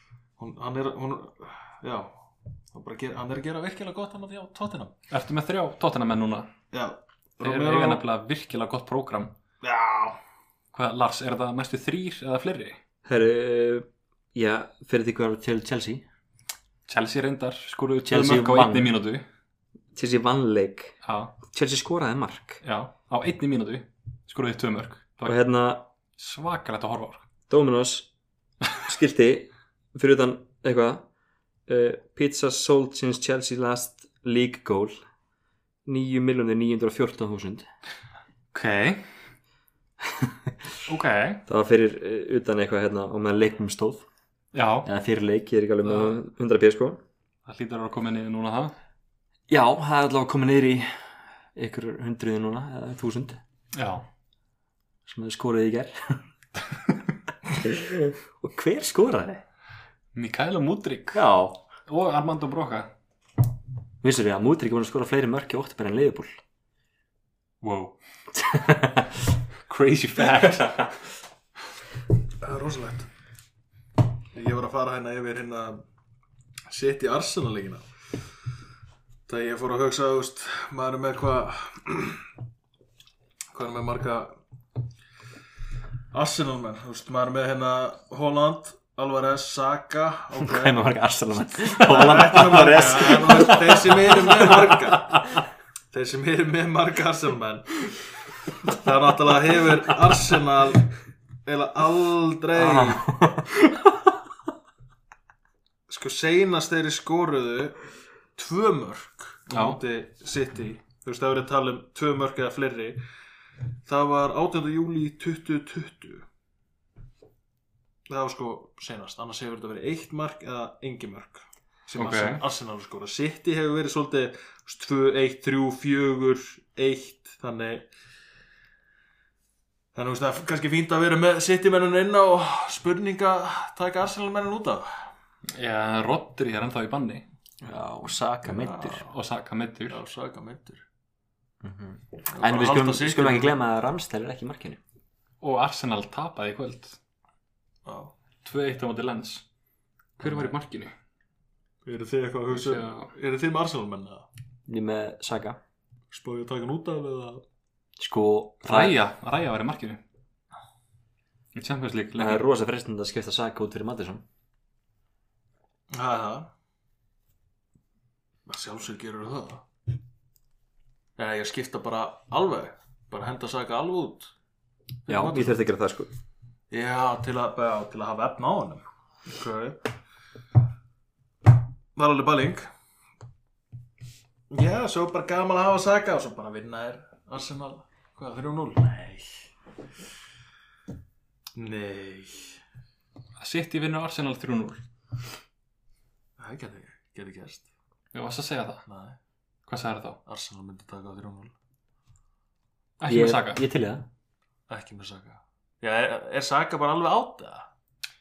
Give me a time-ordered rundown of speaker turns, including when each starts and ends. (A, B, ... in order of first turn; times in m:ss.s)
0:00.4-0:05.0 A
0:05.1-0:06.5 B
0:06.7-0:08.0 A
0:07.4-0:09.3 B
0:09.6-0:10.2 A
0:10.7-0:12.8 B
0:13.1-0:16.0 C
0:16.9-0:19.2 B
0:18.1-0:18.9 C
0:19.9-0:22.6 C
0:21.0-0:21.3 B
0:22.6-0:25.4 B
0:25.2-0:25.8 C
0:26.2-0:27.2 B
0:27.5-0:28.1 C
0:28.8-0:31.0 C
0:31.7-0:35.0 C
0:35.8-0:37.7 C
0:38.5-0:39.0 B
0:40.9-0:41.4 B
0:41.5-0:44.0 C
0:44.5-0:44.9 B
0:44.8-0:47.0 C
0:47.5-0:48.7 B
0:49.5-0:50.9 C
0:51.5-0:53.4 C
0:53.7-0:54.0 B
0:55.1-0:56.2 C
0:57.6-0:59.4 C
1:00.1-1:01.2 B
1:01.1-1:01.6 C
1:01.9-1:02.9 B
1:04.0-1:06.4 C
1:07.6-1:08.0 B
1:08.4-1:09.1 C
1:09.7-1:11.0 B
1:12.4-1:13.1 A
1:14.4-1:15.8 A
1:16.7-1:17.8 A
1:19.3-1:22.2 A
1:23.5-1:24.4 A
1:26.1-1:30.8 A
1:30.4-1:35.0 C
1:31.8-1:35.3 A
1:35.9-1:37.9 A
1:38.7-1:40.9 A
1:41.5-1:43.1 A
1:42.6-1:43.5 C
1:45.9-1:47.8 A
1:48.4-1:53.0 A
1:49.5-1:49.8 B
1:53.9-1:56.3 A
1:58.1-2:07.9 A
2:02.0-2:02.4 B
2:10.0-2:14.9 A
2:15.6-2:17.2 B
2:17.6-2:19.0 C
2:18.4-2:19.1 A
2:19.0-2:20.0 B
2:19.9-2:20.8 A
2:21.6-2:24.8 C
2:22.3-2:23.5 A
2:25.4-2:27.0 B
2:27.9-2:28.1 A
2:28.4-2:29.4 B
2:30.2-2:30.9 B
2:31.8-2:34.3 A
2:32.5-2:33.1 B
2:34.7-2:35.6 C
2:36.1-2:37.4 A
2:38.0-2:39.0 C
2:38.6-2:40.0 B
2:41.6-2:42.4 B
2:42.2-2:44.2 C
2:45.9-2:46.5 A
2:48.5-2:49.6 A
2:51.2-2:54.3 A
2:55.1-2:55.6 A
2:55.1-2:56.1 C
2:56.7-2:59.8 A
3:02.0-3:02.7 A
3:04.5-3:09.5 A
3:11.6-3:12.6 A
3:13.4-3:14.8 B
3:16.4-3:17.7 A
3:18.1-3:18.8 B
3:18.9-3:19.2 A
3:19.7-3:20.2 B
3:20.3-3:21.5 A
3:23.0-3:23.6 B
3:23.1-3:24.1 C
3:24.7-3:27.7 A